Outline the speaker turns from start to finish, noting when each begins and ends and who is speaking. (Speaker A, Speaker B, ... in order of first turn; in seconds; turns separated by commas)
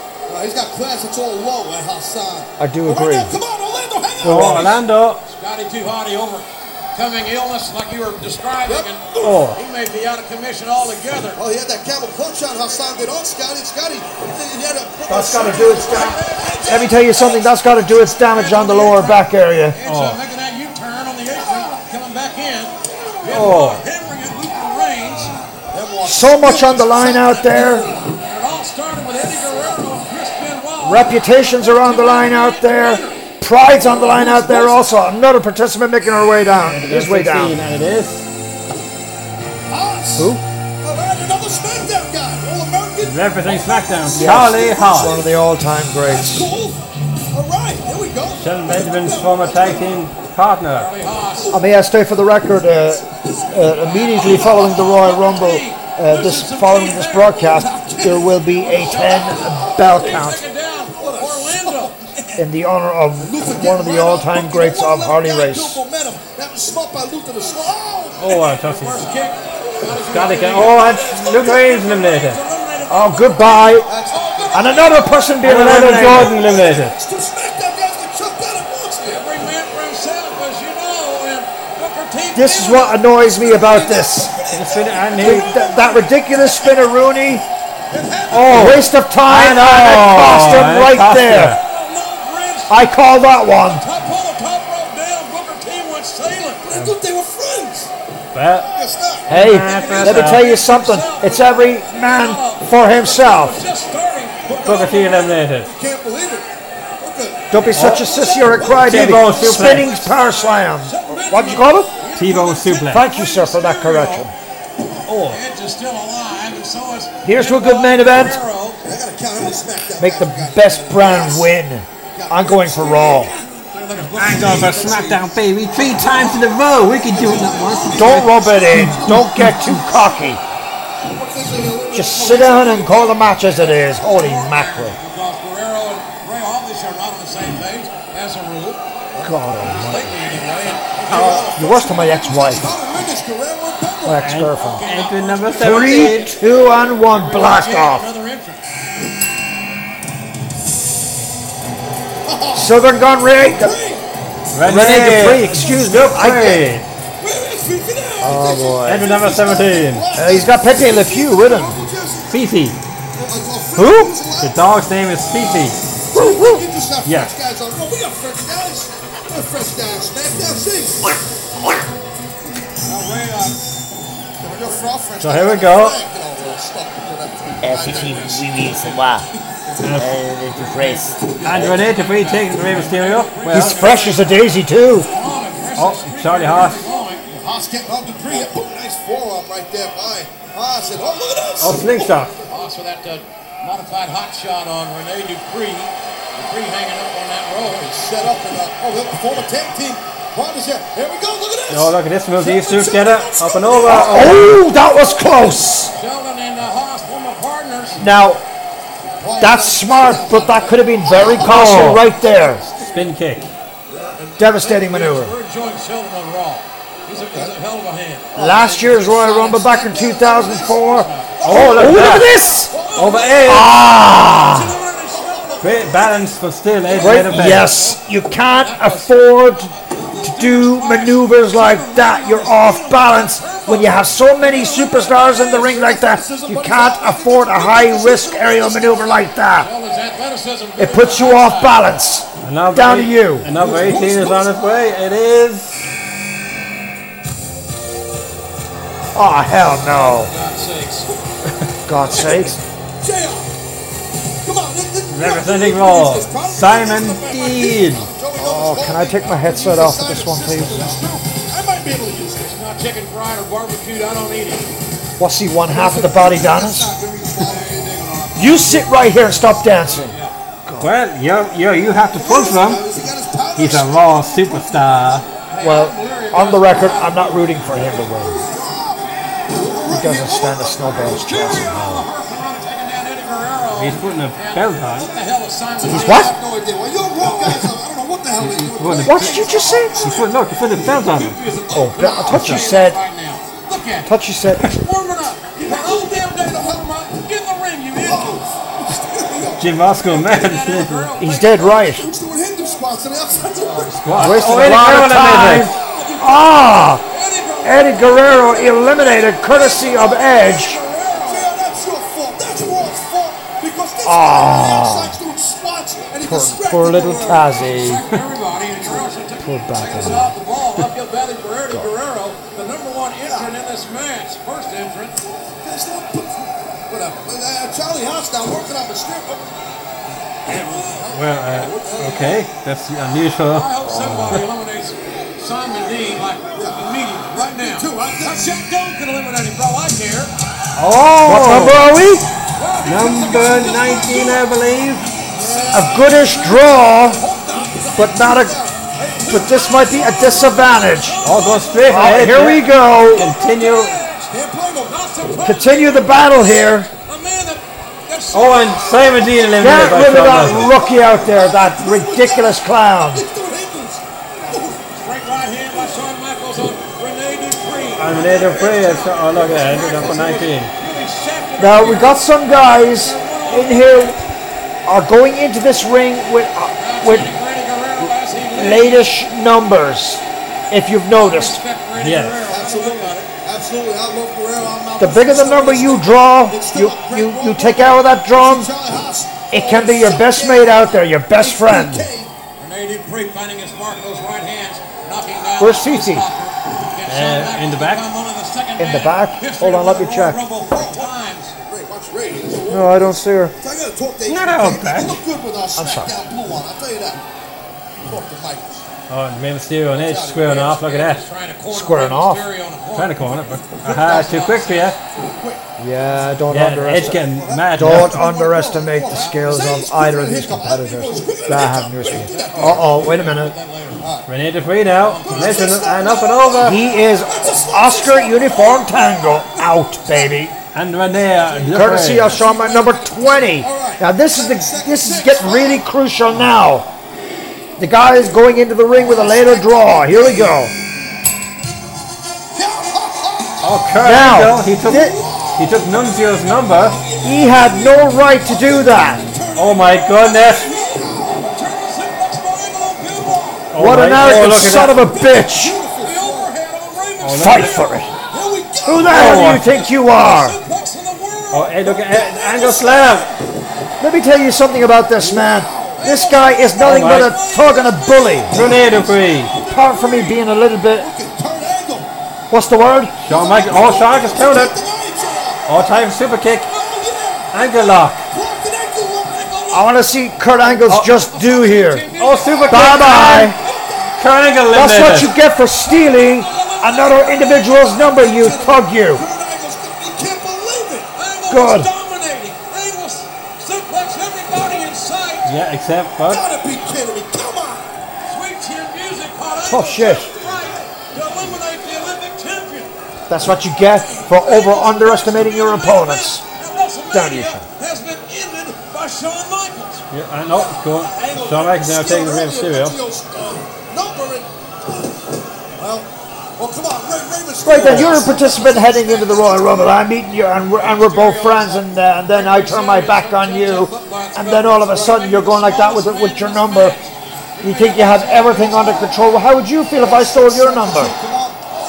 Speaker A: 0.3-4.8, Speaker B: 2.6-3.3, Speaker C: 4.2-5.2, Speaker B: 4.2-4.7, Speaker D: 4.7-11.4, Speaker C: 9.2-9.6, Speaker A: 11.4-17.6, Speaker B: 15.1-19.8, Speaker D: 15.8-17.0, Speaker D: 18.2-25.4, Speaker C: 19.9-20.2, Speaker C: 23.3-23.8, Speaker A: 25.7-28.0, Speaker B: 26.1-27.9, Speaker D: 28.1-33.2, Speaker B: 30.8-37.6, Speaker A: 33.7-34.9, Speaker C: 36.5-38.2, Speaker A: 39.7-45.2, Speaker B: 40.2-40.4, Speaker C: 43.0-45.2, Speaker B: 44.1-46.5, Speaker A: 46.1-50.1, Speaker C: 48.4-50.9, Speaker D: 50.7-51.6, Speaker B: 51.5-60.4, Speaker A: 53.1-54.5, Speaker D: 53.8-62.0, Speaker A: 57.5-62.5, Speaker B: 62.4-65.8, Speaker A: 63.2-68.5, Speaker C: 68.2-69.0, Speaker D: 68.3-75.1, Speaker C: 69.9-72.4, Speaker B: 72.9-73.9, Speaker A: 73.8-79.2, Speaker B: 74.5-76.4, Speaker C: 75.4-77.0, Speaker D: 79.0-83.1, Speaker B: 82.3-84.3, Speaker A: 83.3-86.6, Speaker C: 84.5-85.6, Speaker B: 85.2-87.5, Speaker A: 87.9-88.6, Speaker B: 88.3-91.6, Speaker C: 88.3-91.6, Speaker D: 88.5-88.7, Speaker D: 91.4-93.0, Speaker B: 92.7-93.8, Speaker D: 93.5-96.7, Speaker A: 96.6-97.9, Speaker C: 96.7-97.0, Speaker C: 98.3-98.7, Speaker A: 98.5-99.3, Speaker C: 99.3-100.5, Speaker B: 99.3-103.6, Speaker D: 99.4-104.5, Speaker A: 104.5-109.5, Speaker C: 104.7-105.7, Speaker B: 107.5-111.9, Speaker C: 107.7-110.0, Speaker D: 109.3-114.3, Speaker C: 112.2-113.0, Speaker B: 112.9-114.3, Speaker C: 115.0-115.4, Speaker D: 115.3-118.8, Speaker B: 117.2-118.4, Speaker A: 118.8-121.5, Speaker B: 120.0-123.3, Speaker A: 122.1-123.4, Speaker D: 123.4-125.2, Speaker C: 124.2-129.0, Speaker A: 124.3-126.3, Speaker A: 126.9-130.4, Speaker B: 128.0-130.4, Speaker A: 131.0-133.2, Speaker B: 131.9-135.0, Speaker D: 133.4-138.8, Speaker B: 139.2-140.1, Speaker D: 139.6-141.6, Speaker A: 141.1-144.3, Speaker B: 141.1-142.7, Speaker B: 144.1-144.8, Speaker C: 144.2-146.3, Speaker D: 144.5-148.6, Speaker B: 145.6-148.1, Speaker A: 152.2-154.1, Speaker B: 152.5-153.8, Speaker C: 154.5-156.8, Speaker B: 154.6-156.7, Speaker A: 157.2-162.4, Speaker B: 158.2-159.1, Speaker C: 158.8-160.1, Speaker B: 160.1-161.8, Speaker C: 162.3-162.8, Speaker A: 163.2-164.6, Speaker B: 163.8-164.1, Speaker C: 164.4-165.8, Speaker A: 165.9-171.1, Speaker B: 166.1-166.6, Speaker C: 167.1-167.3, Speaker D: 172.9-173.6, Speaker A: 174.4-178.4, Speaker C: 175.2-176.0, Speaker B: 177.6-179.3, Speaker D: 177.8-179.0, Speaker C: 179.8-180.2, Speaker B: 179.9-181.8, Speaker C: 181.3-183.9, Speaker D: 181.4-184.4, Speaker B: 183.5-185.1, Speaker D: 185.0-187.4, Speaker C: 185.8-186.9, Speaker A: 187.4-192.3, Speaker C: 191.6-192.4, Speaker D: 192.5-198.0, Speaker A: 197.9-204.9, Speaker C: 201.7-204.6, Speaker B: 203.8-205.9, Speaker D: 205.9-208.0, Speaker B: 208.0-208.4, Speaker A: 209.2-213.0, Speaker B: 209.4-212.6, Speaker C: 211.4-212.0, Speaker C: 212.9-213.5, Speaker A: 213.9-214.2, Speaker D: 214.2-218.7, Speaker B: 214.4-215.3, Speaker B: 218.3-222.7, Speaker A: 218.3-223.7, Speaker D: 220.9-221.4, Speaker C: 221.4-222.4, Speaker D: 222.8-223.7, Speaker C: 222.9-223.7, Speaker B: 223.4-224.7, Speaker D: 224.2-226.1, Speaker A: 225.2-226.1, Speaker C: 225.6-227.7, Speaker D: 226.8-229.1, Speaker B: 227.0-239.7, Speaker D: 229.6-234.2, Speaker A: 234.4-239.3, Speaker D: 239.6-241.8, Speaker B: 240.8-243.5, Speaker C: 242.4-245.8, Speaker A: 243.5-244.9, Speaker B: 249.1-250.3, Speaker D: 249.9-251.1, Speaker B: 251.9-252.6, Speaker A: 252.1-253.5, Speaker A: 254.4-262.6, Speaker C: 255.1-258.1, Speaker B: 258.4-260.9, Speaker D: 260.7-261.0, Speaker D: 262.5-264.7, Speaker B: 265.2-266.9, Speaker A: 265.7-268.5, Speaker D: 267.4-270.3, Speaker B: 268.4-270.9, Speaker C: 270.8-272.8, Speaker A: 272.1-275.3, Speaker C: 273.6-275.2, Speaker D: 275.5-278.1, Speaker B: 275.6-278.4, Speaker A: 278.0-281.0, Speaker B: 279.9-282.1, Speaker D: 281.0-286.4, Speaker C: 283.8-285.1, Speaker B: 285.9-286.3, Speaker A: 285.9-290.3, Speaker C: 288.4-291.4, Speaker B: 289.1-290.0, Speaker D: 291.1-294.1, Speaker A: 291.7-292.6, Speaker B: 291.7-293.0, Speaker B: 294.1-294.7, Speaker D: 294.6-298.4, Speaker A: 295.6-296.9, Speaker A: 298.0-299.8, Speaker C: 299.6-301.1, Speaker D: 300.0-301.8, Speaker B: 301.2-302.1, Speaker A: 301.6-306.5, Speaker D: 303.5-304.5, Speaker C: 304.0-305.7, Speaker B: 304.2-307.0, Speaker D: 307.1-311.5, Speaker B: 307.6-310.8, Speaker A: 311.1-317.7, Speaker B: 314.0-315.2, Speaker B: 316.2-318.1, Speaker D: 317.5-325.2, Speaker B: 319.4-320.3, Speaker A: 325.6-329.5, Speaker D: 330.5-331.5, Speaker A: 330.5-332.4, Speaker C: 331.1-334.4, Speaker D: 333.5-340.3, Speaker A: 336.5-338.5, Speaker C: 340.8-341.9, Speaker B: 341.1-342.3, Speaker D: 342.6-344.5, Speaker C: 342.9-345.1, Speaker A: 345.3-349.9, Speaker D: 345.3-346.1, Speaker B: 345.7-347.2, Speaker B: 348.0-348.6, Speaker D: 349.1-354.3, Speaker B: 349.3-351.2, Speaker C: 351.2-354.0, Speaker B: 351.9-353.3, Speaker A: 354.3-355.3, Speaker D: 354.9-359.5, Speaker B: 355.4-356.9, Speaker C: 358.3-360.7, Speaker B: 359.6-363.2, Speaker A: 360.4-364.9, Speaker D: 364.9-374.2, Speaker C: 368.0-370.7, Speaker B: 371.6-374.2, Speaker B: 374.9-377.3, Speaker D: 376.8-379.1, Speaker B: 378.5-381.6, Speaker D: 381.1-383.3, Speaker C: 382.0-382.4, Speaker A: 382.4-392.3, Speaker B: 385.0-388.7, Speaker B: 389.5-392.1, Speaker D: 392.6-401.6, Speaker B: 395.6-396.3, Speaker C: 397.1-398.0, Speaker B: 398.8-400.4, Speaker A: 400.7-407.2, Speaker B: 402.7-403.5, Speaker C: 404.3-405.2, Speaker B: 405.8-406.1, Speaker A: 408.0-408.9, Speaker C: 409.1-411.2, Speaker A: 409.9-410.7, Speaker D: 410.4-415.0, Speaker B: 411.7-412.4, Speaker C: 412.9-415.0, Speaker A: 415.2-415.6, Speaker B: 415.8-423.5, Speaker C: 416.5-418.2, Speaker A: 417.0-423.1, Speaker D: 419.1-419.8, Speaker D: 422.2-424.1, Speaker A: 424.0-424.3, Speaker C: 424.3-426.8, Speaker D: 425.0-425.8, Speaker A: 425.2-430.3, Speaker B: 426.6-430.5, Speaker C: 430.7-432.4, Speaker D: 431.4-433.6, Speaker B: 431.7-436.9, Speaker A: 433.5-435.8, Speaker B: 437.8-440.7, Speaker A: 438.9-440.6, Speaker A: 442.5-443.7, Speaker C: 443.6-447.0, Speaker B: 444.0-445.1, Speaker A: 444.7-451.5, Speaker B: 447.2-449.2, Speaker C: 449.6-450.7, Speaker D: 451.4-453.7, Speaker C: 453.7-455.0, Speaker B: 453.8-455.8, Speaker A: 454.4-456.5, Speaker D: 456.0-457.8, Speaker C: 457.2-457.8, Speaker B: 457.4-458.1, Speaker A: 458.3-459.6, Speaker B: 458.9-460.6, Speaker C: 459.1-459.6, Speaker D: 459.4-462.2, Speaker C: 461.5-463.3, Speaker A: 462.1-463.1, Speaker B: 464.0-468.6, Speaker A: 465.2-466.1, Speaker D: 466.0-468.7, Speaker C: 466.8-467.4, Speaker C: 468.5-469.5, Speaker A: 468.5-472.1, Speaker B: 469.7-471.1, Speaker B: 472.5-473.2, Speaker C: 473.2-474.8, Speaker A: 473.2-480.0, Speaker C: 475.7-476.7, Speaker C: 477.5-478.2, Speaker B: 479.7-482.1, Speaker A: 480.5-480.8, Speaker D: 480.9-483.5, Speaker C: 482.2-483.6, Speaker B: 482.7-483.6, Speaker A: 483.1-484.2, Speaker C: 484.2-485.3, Speaker B: 484.7-489.2, Speaker D: 485.9-488.2, Speaker A: 488.1-491.1, Speaker D: 491.1-495.5, Speaker B: 491.5-491.9, Speaker C: 495.4-496.4, Speaker A: 496.2-497.9, Speaker D: 498.2-502.9, Speaker B: 499.7-500.3, Speaker B: 503.3-506.4, Speaker D: 504.0-510.1, Speaker B: 507.1-507.6, Speaker C: 510.1-513.0, Speaker D: 511.1-511.4, Speaker A: 511.1-515.2, Speaker A: 515.8-520.0, Speaker B: 517.6-527.0, Speaker D: 520.8-529.2, Speaker B: 527.6-531.1, Speaker A: 530.0-531.6